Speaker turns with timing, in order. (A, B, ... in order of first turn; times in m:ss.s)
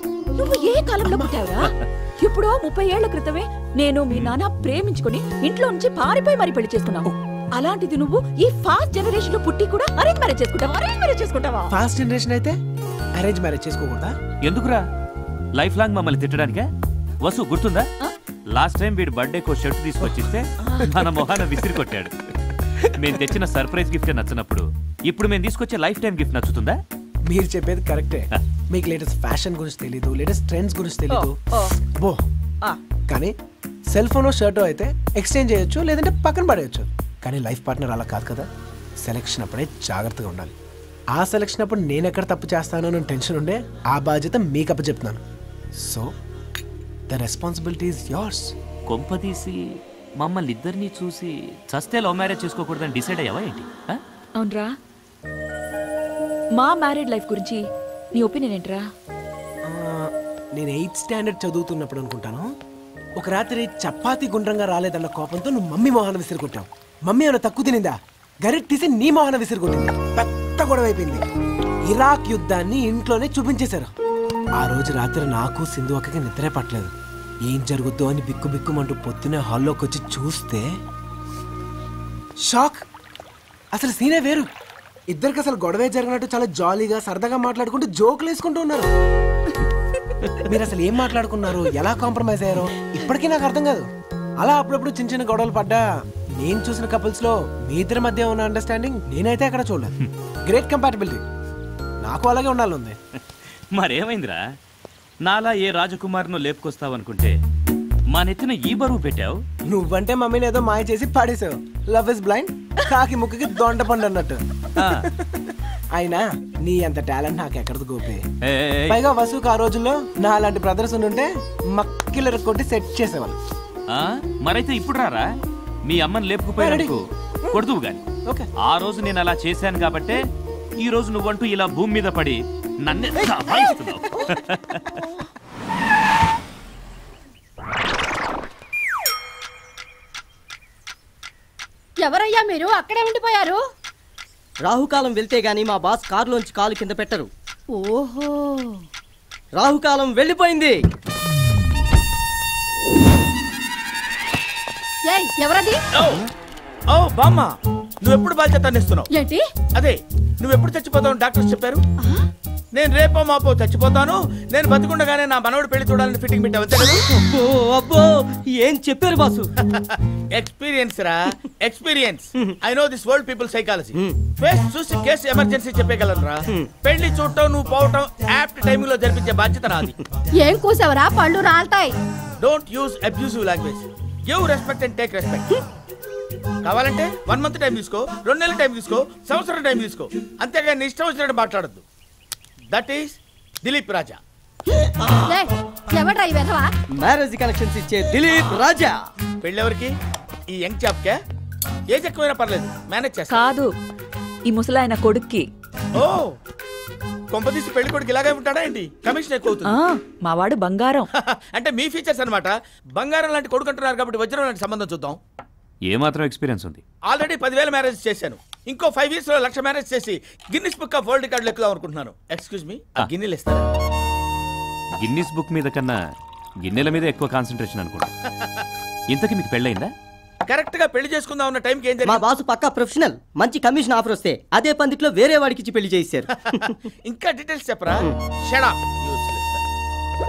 0:00.4-0:11.7 A
0:01.0-0:01.3 B
0:11.7-0:12.6 B
0:13.1-0:14.1 B
0:14.4-0:14.8 C
0:15.5-0:16.7 C
0:17.2-0:17.9 C
0:18.5-0:22.1 C
0:22.8-0:26.8 C
0:27.2-0:31.4 B
0:33.1-0:33.3 B
0:33.9-0:38.5 B
0:39.0-0:40.5 B
0:41.1-0:45.2 B
0:45.7-0:46.1 B
0:47.1-0:48.5 B
0:48.9-0:54.0 C
0:54.4-0:54.7 A
0:56.6-0:57.6 A
0:58.1-0:58.8 A
0:59.6-1:02.5 B
1:03.2-1:11.2 B
1:11.9-1:13.9 B
1:14.6-1:16.9 B
1:17.5-1:20.6 B
1:22.4-1:22.8 B
1:23.7-1:24.5 B
1:25.1-1:28.9 B
1:30.4-1:33.9 B
1:34.4-1:35.8 B
1:36.4-1:39.9 B
1:40.4-1:41.2 B
1:42.0-1:43.0 B
1:43.7-1:44.6 C
1:45.2-1:47.4 C
1:48.1-1:49.4 C
1:49.7-1:55.1 B
1:54.8-1:55.0 C
1:55.9-1:58.2 B
1:58.4-1:59.0 C
1:58.9-2:03.4 B
2:03.9-2:08.0 C
2:06.6-2:07.0 B
2:08.6-2:10.2 C
2:10.8-2:14.9 C
2:22.0-2:23.6 D
2:24.6-2:27.3 E
2:27.7-2:28.8 D
2:29.6-2:30.7 E
2:35.1-2:35.8 D
2:35.9-2:36.2 F
2:36.9-2:37.5 F
2:38.0-2:39.1 F
2:39.1-2:39.4 D
2:39.8-2:41.8 F
2:42.7-2:47.0 F
2:46.8-2:49.4 E
2:50.3-2:59.9 F
3:00.4-3:01.9 D
3:02.4-3:05.5 F
3:06.6-3:11.8 F
3:12.7-3:14.2 F
3:15.3-3:16.7 D
3:17.0-3:18.9 E
3:19.4-3:19.9 F
3:20.5-3:21.2 F
3:21.9-3:23.4 F
3:23.3-3:23.7 A
3:24.5-3:25.4 A
3:26.0-3:26.3 F
3:27.3-3:29.7 F
3:29.7-3:31.1 A
3:31.2-3:35.2 F
3:35.9-3:36.8 C
3:37.1-3:43.6 F
3:45.0-3:46.0 C
3:46.6-3:48.1 C
3:49.1-3:49.9 C
3:50.5-3:52.2 F
3:52.0-3:56.6 E
3:56.5-3:59.6 F